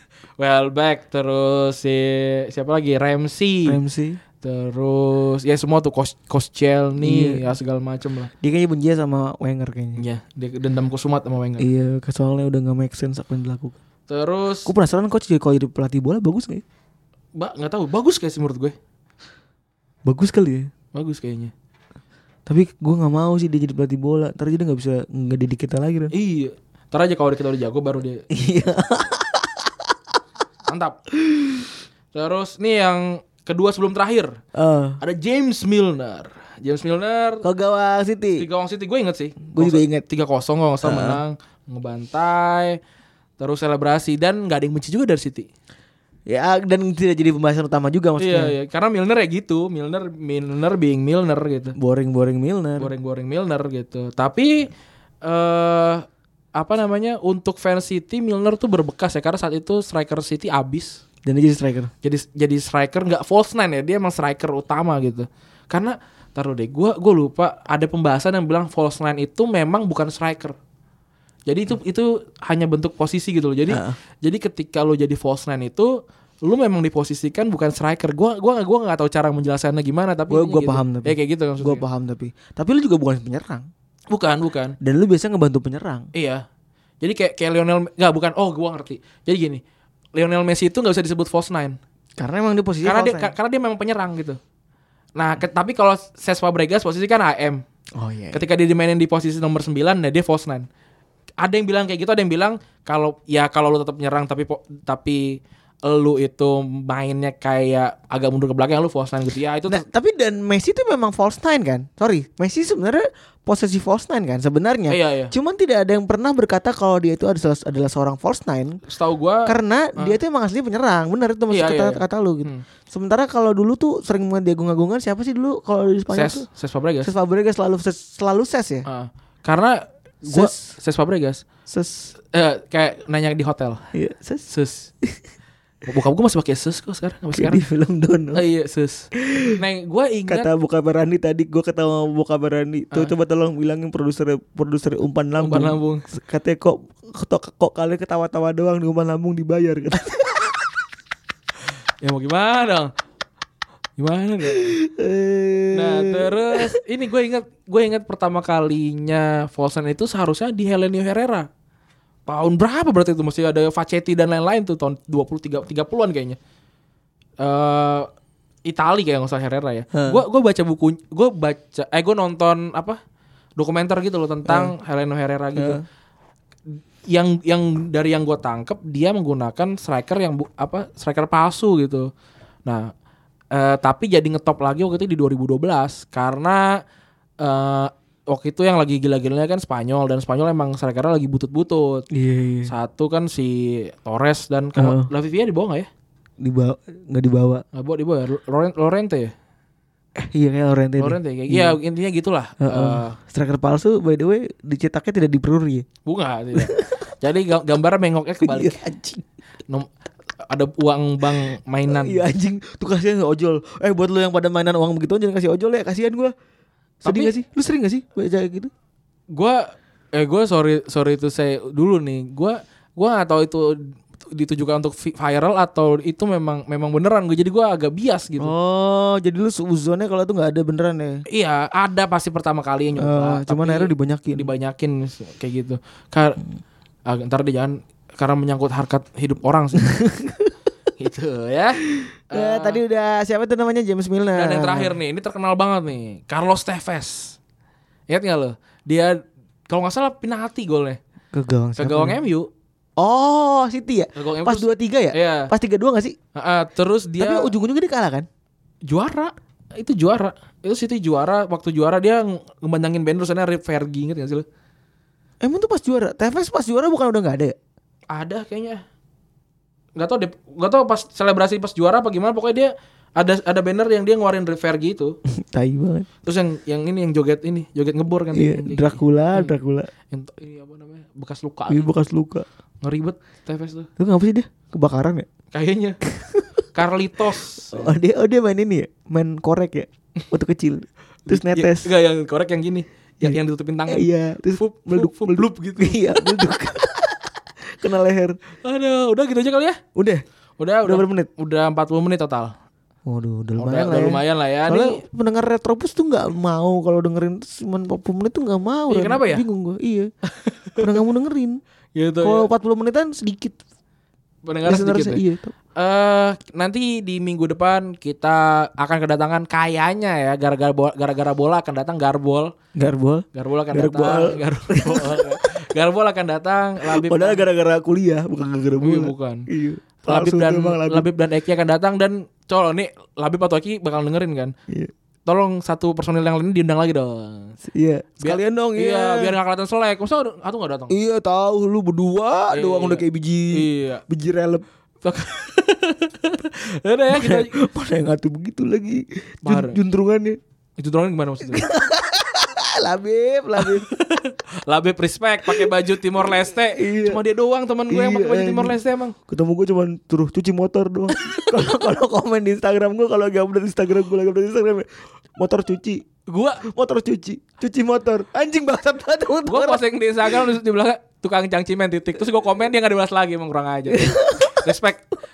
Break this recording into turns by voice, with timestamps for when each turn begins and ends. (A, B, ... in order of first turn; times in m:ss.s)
0:00.4-0:03.8 A
0:03.7-0:04.2 B
0:04.4-0:08.3 A
0:07.0-0:07.4 B
0:08.4-0:10.0 B
0:10.0-0:11.7 A
0:11.6-0:13.8 B
0:14.1-0:14.7 A
0:14.6-0:16.6 B
0:17.4-0:18.8 A
0:20.0-0:20.7 B
0:20.9-0:21.5 A
0:22.5-0:26.1 B
0:26.1-0:28.2 A
0:28.3-0:29.9 B
0:30.7-0:31.0 A
0:31.2-0:31.7 B
0:32.1-0:34.4 A
0:34.6-0:35.0 B
0:35.0-0:37.4 A
0:37.4-0:38.5 B
0:38.4-0:42.8 A
0:39.5-0:40.0 B
0:40.8-0:41.2 B
0:43.4-0:45.5 A
0:46.3-0:48.5 B
0:48.2-0:51.8 A
0:51.8-0:52.9 B
0:52.8-0:54.7 A
0:55.2-1:01.0 A
1:01.2-1:01.9 B
1:02.0-1:10.6 A
1:11.5-1:21.8 A
1:13.7-1:14.0 B
1:20.3-1:23.7 B
1:24.1-1:24.8 A
1:24.8-1:26.1 B
1:26.1-1:26.4 A
1:27.0-1:29.6 A
1:30.2-1:31.8 A
1:32.2-1:33.3 B
1:32.8-1:34.4 A
1:35.2-1:37.6 A
1:38.0-1:38.4 B
1:38.3-1:40.7 A
1:41.4-1:49.8 A
1:49.7-1:58.8 B
1:54.9-1:55.3 A
1:58.9-2:00.2 A
1:59.4-2:06.5 B
2:01.5-2:02.6 A
2:06.1-2:07.1 A
2:07.0-2:08.9 B
2:08.9-2:11.4 A
2:10.3-2:10.7 B
2:11.7-2:12.1 B
2:12.3-2:13.8 A
2:13.9-2:14.5 B
2:14.5-2:14.9 A
2:15.9-2:17.6 A
2:17.3-2:18.4 B
2:18.3-2:20.5 A
2:19.2-2:19.6 B
2:20.3-2:30.6 B
2:25.4-2:26.0 A
2:32.0-2:32.9 A
2:34.0-2:34.6 A
2:34.5-2:36.7 B
2:35.7-2:41.5 A
2:42.3-2:46.4 A
2:47.4-2:48.1 A
2:48.7-2:53.0 A
2:49.9-2:50.2 B
2:53.6-2:55.8 A
2:54.5-2:54.7 B
2:55.6-2:55.8 B
2:57.1-3:02.1 A
3:02.6-3:02.9 A
3:03.5-3:06.8 A
3:07.4-3:12.1 A
3:12.1-3:12.7 B
3:12.7-3:15.9 A
3:14.8-3:15.1 B
3:16.4-3:17.6 B
3:17.8-3:19.3 A
3:20.2-3:21.8 B
3:21.0-3:23.2 A
3:22.6-3:25.9 B
3:26.1-3:28.8 A
3:26.6-3:27.0 B
3:28.4-3:29.2 B
3:30.5-3:32.2 A
3:31.9-3:36.3 B
3:37.0-3:37.3 A
3:37.0-3:38.7 B
3:39.3-3:48.5 A
3:48.4-3:51.2 B
3:51.3-3:56.4 A
3:53.0-3:54.5 B
3:57.1-3:59.9 A
3:59.8-4:00.5 B
4:01.0-4:02.8 A
4:01.9-4:05.0 B
4:04.4-4:07.4 A
4:08.1-4:11.0 A
4:11.3-4:12.2 B
4:11.8-4:12.5 A
4:13.0-4:16.2 B
4:14.2-4:15.5 A
4:16.4-4:17.5 A
4:17.2-4:18.3 B
4:18.8-4:24.5 A
4:25.4-4:27.6 B
4:28.1-4:28.8 A
4:30.0-4:35.2 A
4:35.3-4:36.1 B
4:36.2-4:39.6 A
4:38.3-4:39.9 B
4:40.1-4:41.9 A
4:41.7-4:42.5 B
4:42.8-4:43.9 A
4:44.0-4:45.3 B
4:45.5-4:46.0 A
4:46.1-4:46.5 B
4:46.7-4:48.0 A
4:47.7-4:51.9 B
4:51.3-4:56.2 A
4:53.9-4:58.4 B
4:58.6-4:59.8 A
5:00.0-5:00.2 B
5:00.6-5:02.5 A
5:00.8-5:01.3 B
5:03.1-5:10.1 B
5:03.6-5:05.0 A
5:08.9-5:09.4 A
5:10.4-5:10.9 A
5:10.8-5:11.6 B
5:12.0-5:12.5 A
5:12.2-5:13.6 B
5:14.4-5:15.2 A
5:14.7-5:15.5 B
5:15.8-5:22.5 A
5:22.8-5:25.4 B
5:23.4-5:27.4 A
5:26.8-5:31.1 B
5:28.8-5:29.5 A
5:30.0-5:34.5 A
5:35.3-5:37.6 A
5:37.7-5:39.3 B
5:38.2-5:41.0 A
5:40.9-5:44.7 B
5:42.5-5:44.0 A
5:45.0-5:47.5 A
5:47.1-5:50.4 B
5:49.4-5:49.8 A
5:50.8-5:51.7 A
5:51.4-5:53.9 B
5:53.6-5:59.2 A
5:56.2-5:57.2 B
5:57.9-6:06.0 B
6:06.3-6:06.6 A
6:06.6-6:10.4 B
6:09.5-6:15.0 A
6:13.9-6:14.7 B